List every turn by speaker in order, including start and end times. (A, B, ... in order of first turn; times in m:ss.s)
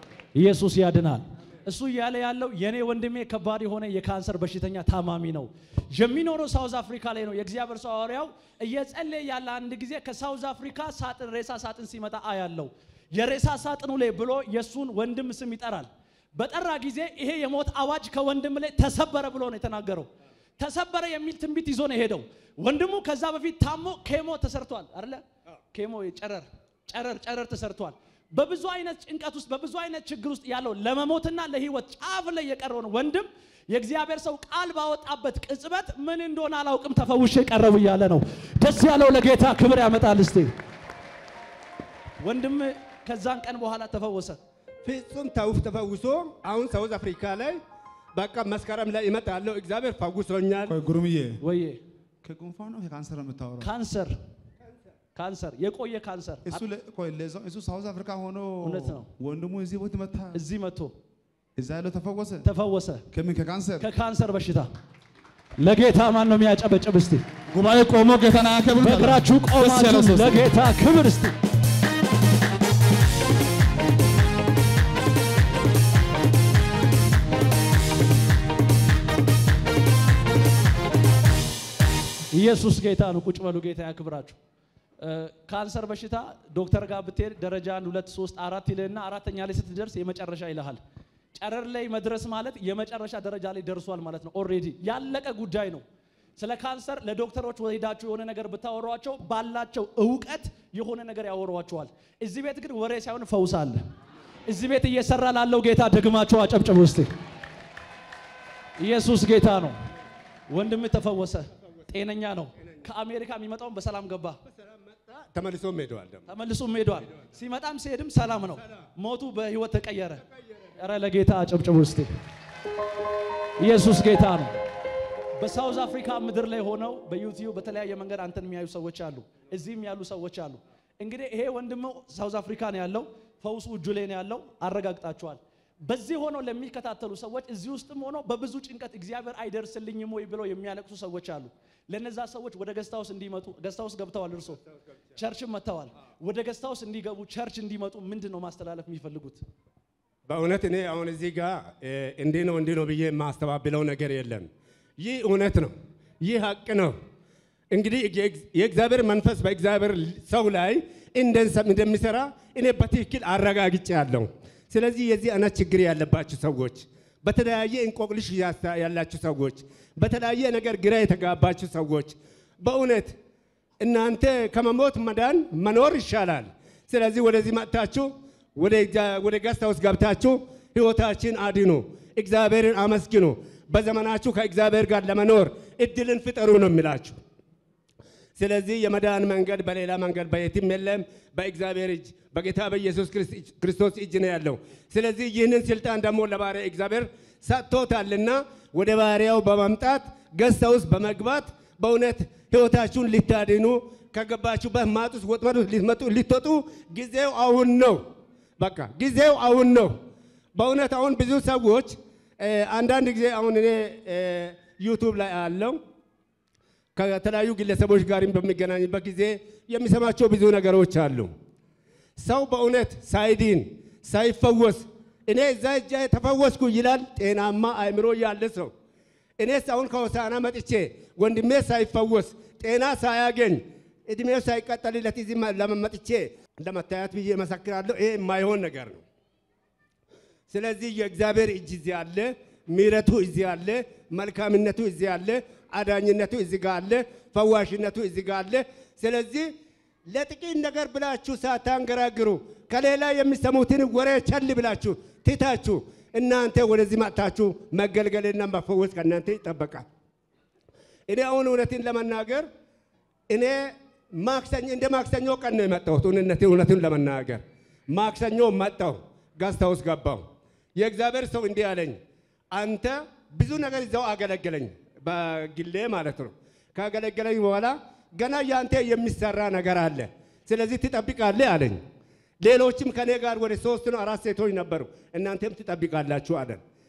0:00.3-0:40.5 A
0:42.2-0:44.4 A
0:44.8-0:47.6 B
0:48.1-0:50.7 B
0:50.7-0:51.4 C
0:51.4-0:51.8 A
0:52.2-0:53.7 C
0:53.6-0:54.1 A
0:55.1-0:56.6 A
0:56.4-1:00.4 C
0:58.6-0:59.0 A
1:00.3-1:00.9 A
1:01.6-1:02.4 C
1:02.4-1:03.0 A
1:03.1-1:03.9 C
1:03.8-1:04.7 A
1:05.6-1:07.2 A
1:07.5-1:10.5 C
1:08.7-1:11.3 A
1:22.3-1:24.4 A
1:25.0-1:30.8 A
1:31.3-1:35.8 A
1:36.4-1:43.8 A
1:44.5-1:47.1 A
1:48.8-1:49.8 A
1:50.5-1:54.4 A
1:54.5-1:56.3 B
1:56.3-2:00.2 A
2:00.8-2:02.1 A
2:03.6-2:04.5 A
2:05.4-2:24.6 A
2:25.1-2:29.4 A
2:30.3-2:36.9 B
2:37.7-2:53.1 B
2:53.8-3:07.2 B
3:08.4-3:28.0 B
3:28.6-3:29.9 B
3:30.5-3:35.8 B
3:37.0-3:41.3 B
3:42.2-3:48.7 B
3:49.4-3:59.0 B
4:00.5-4:09.5 B
4:10.1-4:19.8 B
4:21.1-4:22.4 B
4:23.3-4:30.2 B
4:30.8-4:32.0 B
4:32.5-4:41.8 B
4:42.4-4:46.6 B